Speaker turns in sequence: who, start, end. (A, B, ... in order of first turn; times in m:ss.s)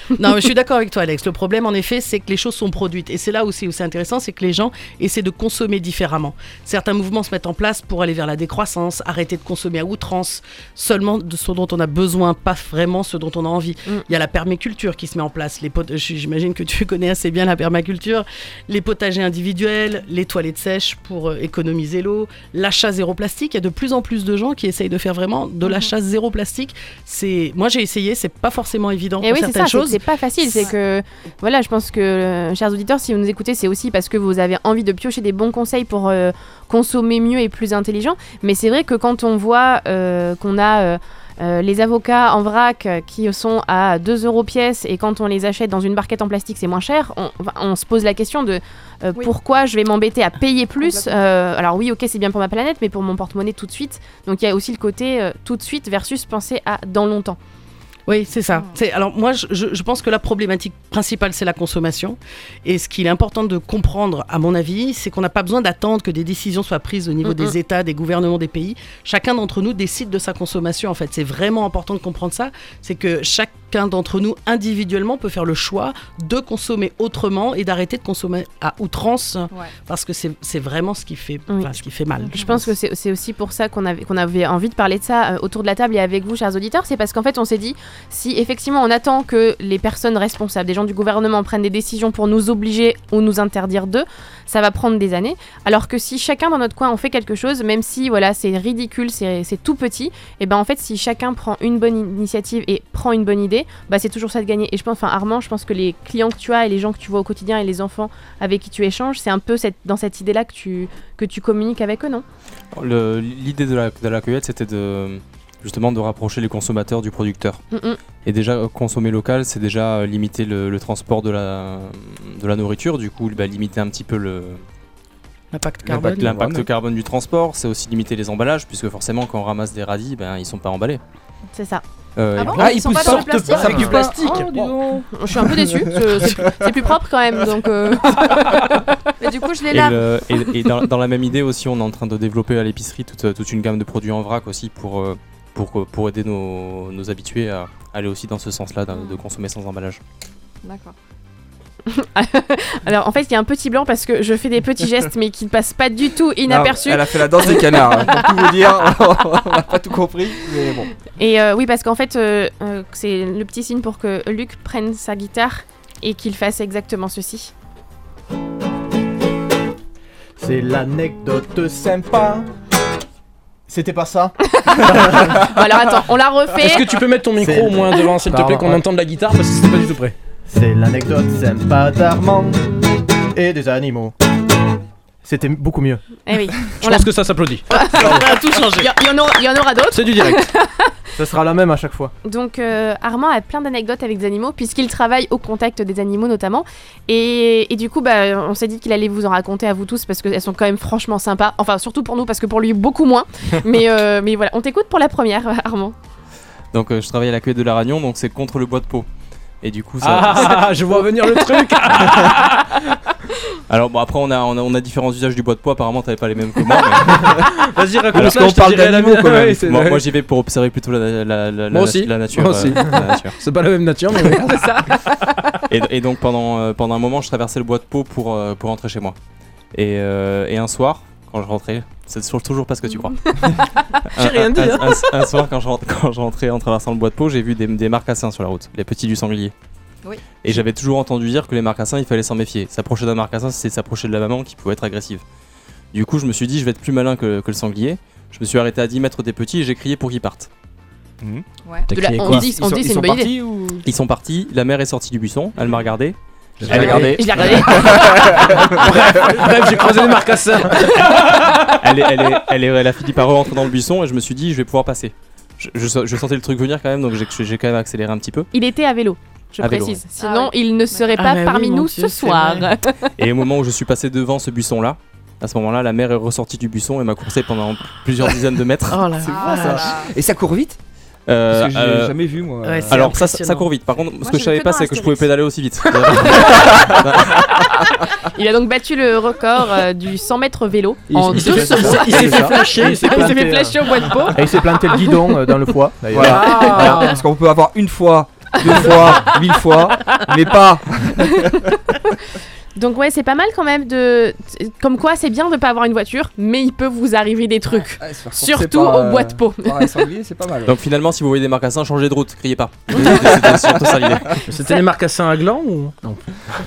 0:00.2-0:30.0 A
0:25.6-0:25.9 B
0:29.2-0:57.4 C
0:50.8-0:51.2 B
0:58.1-1:22.7 A
1:07.2-1:07.6 C
1:22.2-1:22.4 B
1:22.3-1:52.2 C
1:52.7-1:57.6 D
1:57.7-1:58.0 C
1:58.2-2:04.6 D
2:05.5-2:06.4 A
2:05.8-2:06.7 E
2:06.0-2:11.0 D
2:11.5-2:11.8 C
2:12.2-2:13.3 D
2:12.4-2:14.1 B
2:12.5-2:16.7 E
2:13.5-2:14.7 F
2:15.1-2:18.9 C
2:19.2-2:20.0 B
2:19.7-2:30.0 D
2:30.6-2:30.9 B
2:31.9-2:37.6 C
2:36.4-2:40.9 E
2:41.2-2:47.5 C
2:50.4-2:52.5 G
2:53.7-2:54.3 G
2:54.5-2:57.0 C
2:54.8-2:55.4 G
2:56.6-3:00.2 F
2:57.4-2:58.8 G
3:00.5-3:02.6 G
3:03.3-3:04.1 G
3:05.2-3:06.0 G
3:06.2-3:07.1 C
3:06.8-3:07.6 F
3:07.7-3:10.9 C
3:07.9-3:08.9 A
3:08.0-3:08.2 G
3:09.9-3:10.4 G
3:11.2-3:12.1 G
3:12.2-3:25.9 C
3:26.7-3:29.1 D
3:29.6-3:30.8 D
3:30.0-3:32.9 F
3:33.7-3:37.5 D
3:37.0-3:40.0 F
3:38.1-3:39.6 E
3:39.6-3:43.4 D
3:41.7-3:45.0 F
3:44.5-3:44.8 C
3:45.7-3:49.2 D
3:49.7-3:59.5 D
3:53.3-3:53.6 C
3:54.2-3:55.1 F
4:00.0-4:00.4 B
4:00.4-4:05.2 D
4:05.9-4:10.5 D
4:11.9-4:12.5 F
4:11.9-4:13.3 C
4:12.2-4:13.8 E
4:13.8-4:17.6 D
4:16.6-4:16.9 G
4:16.6-4:21.8 F
4:16.7-4:19.5 E
4:16.7-4:18.1 C
4:21.7-4:28.5 D
4:28.5-4:33.1 C
4:29.6-4:30.0 D
4:30.2-4:31.2 B
4:31.1-4:32.7 A
4:33.2-4:39.0 D
4:38.9-4:39.9 A
4:39.2-4:40.8 E
4:39.2-4:40.1 B
4:41.3-4:42.2 D
4:41.5-4:43.1 E
4:42.6-4:43.7 A
4:42.9-4:47.6 D
4:44.2-4:45.3 B
4:48.2-4:55.3 C
4:51.1-4:53.8 F
4:51.3-4:53.7 G
4:54.3-4:56.6 G
4:56.1-5:01.8 E
4:56.1-4:57.2 F
4:56.6-4:56.9 C
4:56.6-4:57.0 B
4:58.6-4:59.3 C
5:01.4-5:02.1 C
5:02.8-5:09.9 C
5:08.0-5:10.8 E
5:10.6-5:14.4 D
5:13.1-5:13.7 E
5:14.4-5:16.2 F